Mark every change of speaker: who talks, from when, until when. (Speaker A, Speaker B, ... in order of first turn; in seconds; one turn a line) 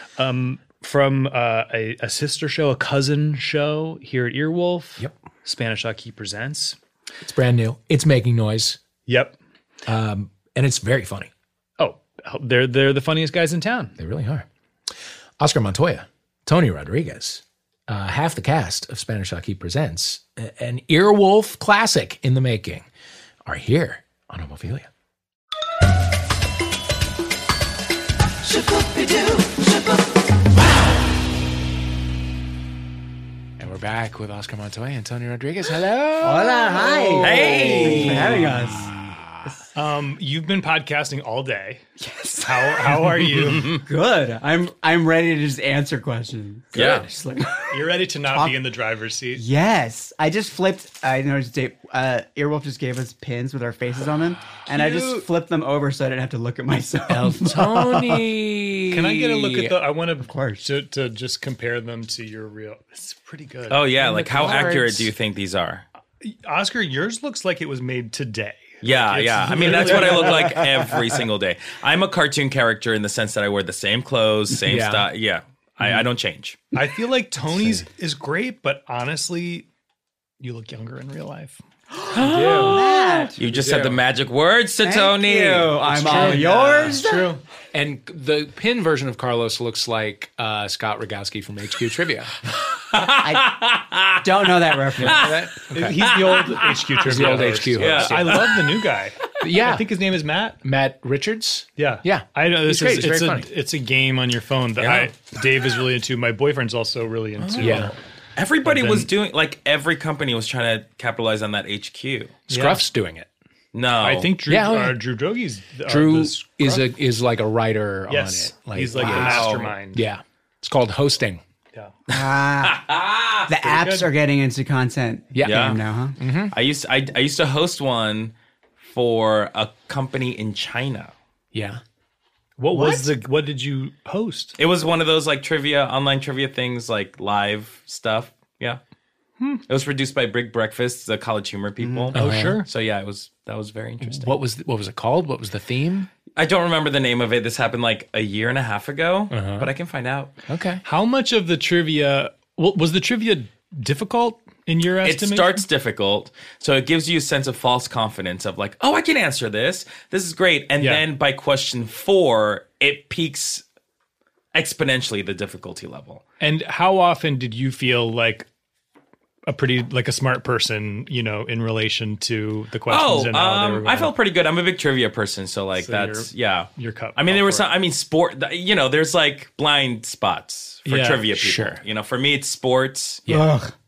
Speaker A: 0.2-6.8
Speaker B: 7.2-8.8
Speaker A: 9.1-9.3
Speaker B: 9.8-11.3
Speaker A: 11.8-13.9
Speaker B: 14.0-14.4
Speaker B: 15.4-22.8
Speaker B: 23.4-24.9
Speaker B: 33.6-39.5
Speaker C: 36.2-39.6
Speaker D: 37.2-38.5
Speaker A: 37.4-38.0
Speaker A: 39.7-41.8
Speaker C: 42.0-48.6
Speaker A: 42.4-43.7
Speaker D: 46.7-47.1
Speaker B: 46.7-47.0
Speaker A: 47.7-49.4
Speaker C: 49.3-58.2
Speaker D: 54.7-55.2
Speaker B: 57.1-59.7
Speaker A: 58.9-64.8
Speaker C: 60.2-60.6
Speaker D: 63.7-65.8
Speaker B: 64.0-65.1
Speaker A: 66.2-70.5
Speaker D: 68.8-76.6
Speaker C: 70.2-70.9
Speaker B: 74.6-75.1
Speaker A: 76.7-79.7
Speaker B: 77.6-77.8
Speaker A: 80.4-81.6
Speaker C: 82.0-83.4
Speaker D: 82.1-86.9
Speaker B: 82.1-84.0
Speaker A: 82.3-82.7
Speaker C: 84.8-87.4
Speaker A: 85.9-87.4
Speaker B: 87.7-92.3
Speaker D: 92.8-95.4
Speaker C: 93.2-93.5
Speaker C: 94.2-95.3
Speaker B: 95.0-96.1
Speaker A: 95.1-100.6
Speaker D: 96.0-98.8
Speaker B: 97.0-98.5
Speaker B: 99.4-99.8
Speaker B: 100.6-103.5
Speaker A: 101.8-108.0
Speaker D: 104.8-105.1
Speaker D: 107.4-112.4
Speaker B: 107.6-107.9
Speaker A: 108.6-109.1
Speaker B: 112.5-113.3
Speaker A: 112.5-112.8
Speaker D: 113.7-114.3
Speaker A: 114.0-116.8
Speaker B: 114.5-115.0
Speaker B: 115.8-121.4
Speaker A: 118.1-120.0
Speaker D: 118.9-119.7
Speaker C: 122.1-122.8
Speaker D: 122.1-123.5
Speaker C: 123.5-126.2
Speaker A: 123.5-124.1
Speaker B: 125.3-126.5
Speaker D: 125.4-125.8
Speaker D: 126.5-128.3
Speaker D: 128.8-131.1
Speaker B: 131.5-131.8
Speaker A: 132.6-134.6
Speaker C: 132.7-133.1
Speaker D: 134.6-138.8
Speaker D: 139.7-144.4
Speaker C: 141.8-142.1
Speaker B: 142.1-142.6
Speaker A: 142.1-142.7
Speaker B: 144.0-146.1
Speaker D: 146.3-150.3
Speaker B: 149.3-149.7
Speaker B: 150.5-150.8
Speaker A: 150.8-155.6
Speaker D: 155.0-163.6
Speaker A: 160.8-161.0
Speaker D: 164.5-166.2
Speaker A: 166.4-168.5
Speaker A: 169.4-174.1
Speaker D: 172.9-183.2
Speaker A: 175.8-177.7
Speaker A: 180.8-181.2
Speaker B: 181.3-181.8
Speaker B: 183.3-183.5
Speaker C: 183.3-183.7